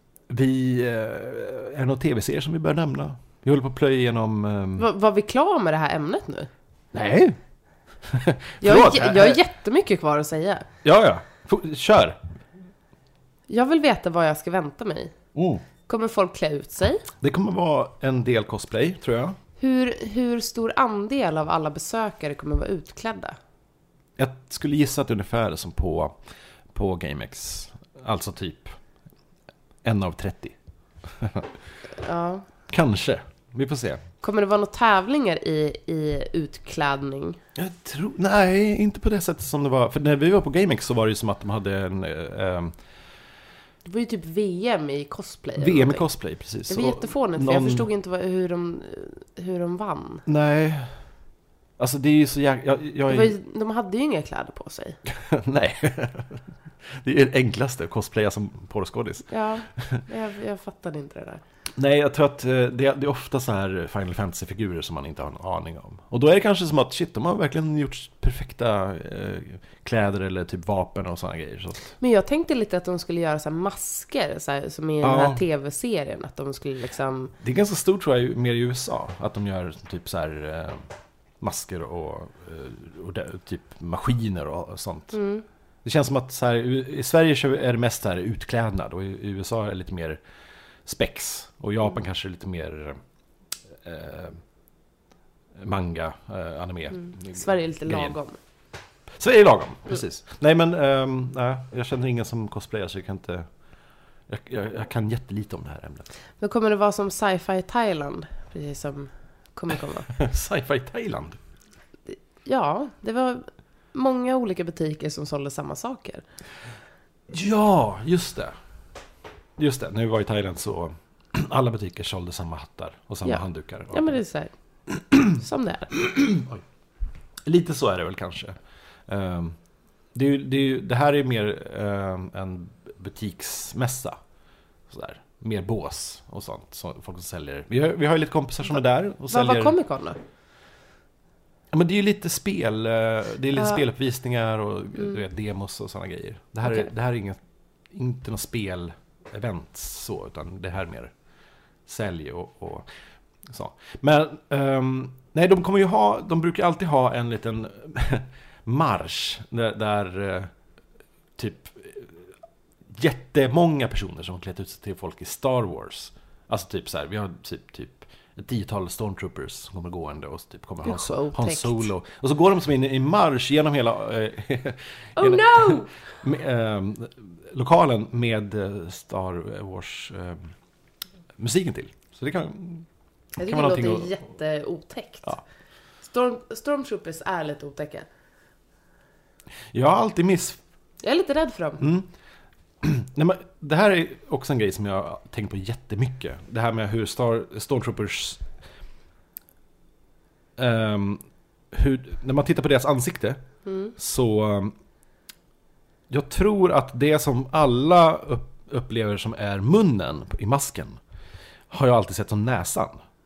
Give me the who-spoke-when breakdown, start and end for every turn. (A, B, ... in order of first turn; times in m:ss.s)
0:00.3-0:04.9 A
0:04.8-0:06.5 B
0:06.9-0:07.4 A
0:08.0-0:09.4 A
0:08.6-0:10.7 B
0:10.8-0:12.2 A
0:13.5-0:15.2 B
0:15.3-0:15.6 A
0:15.9-0:17.1 B
0:17.2-0:19.4 A
0:19.6-0:23.4 B
0:24.2-0:26.1 A
0:26.7-0:28.8 A
0:29.8-0:31.5 A
0:32.0-0:32.4 B
0:32.7-0:34.0 A
0:34.2-0:37.4 B
0:37.6-0:42.7 A
0:43.8-0:46.1 B
0:45.6-0:47.9 A
0:46.7-0:50.2 B
0:50.2-0:50.9 A
0:51.8-0:53.4 A
0:53.1-0:55.0 B
0:55.0-1:00.0 A
0:59.3-1:01.4 B
1:01.8-1:11.9 A
1:12.0-1:17.3 B
1:15.0-1:15.4 A
1:17.4-1:20.9 A
1:21.4-1:25.2 A
1:25.1-1:25.4 B
1:25.8-1:30.2 A
1:30.9-1:33.0 A
1:33.8-1:34.4 A
1:35.6-1:38.2 A
1:36.9-1:38.4 B
1:39.2-1:43.5 A
1:44.3-1:46.1 A
1:46.4-1:50.1 B
1:50.1-1:51.4 A
1:52.1-1:56.2 B
1:57.3-1:58.5 A
1:59.6-2:04.1 A
2:03.2-2:04.5 B
2:05.2-2:06.0 B
2:06.0-2:06.6 A
2:07.4-2:08.6 A
2:09.1-2:09.6 A
2:10.1-2:14.2 A
2:14.9-2:19.8 A
2:19.3-2:20.2 B
2:21.7-2:27.4 A
2:23.6-2:23.8 B
2:27.9-2:31.1 A
2:31.9-2:32.9 A
2:33.4-2:40.5 A
2:41.4-2:42.2 A
2:42.9-3:00.5 A
2:50.8-2:51.9 B
2:55.2-2:55.9 B
3:01.4-3:02.9 A
3:03.4-3:05.4 B
3:03.4-3:04.1 A
3:06.0-3:08.1 B
3:09.7-3:10.6 A
3:11.0-3:11.8 B
3:11.8-3:12.1 A
3:12.8-3:18.4 A
3:20.6-3:23.4 A
3:23.6-3:23.9 B
3:24.0-3:24.7 A
3:26.1-3:31.0 A
3:31.7-3:33.0 A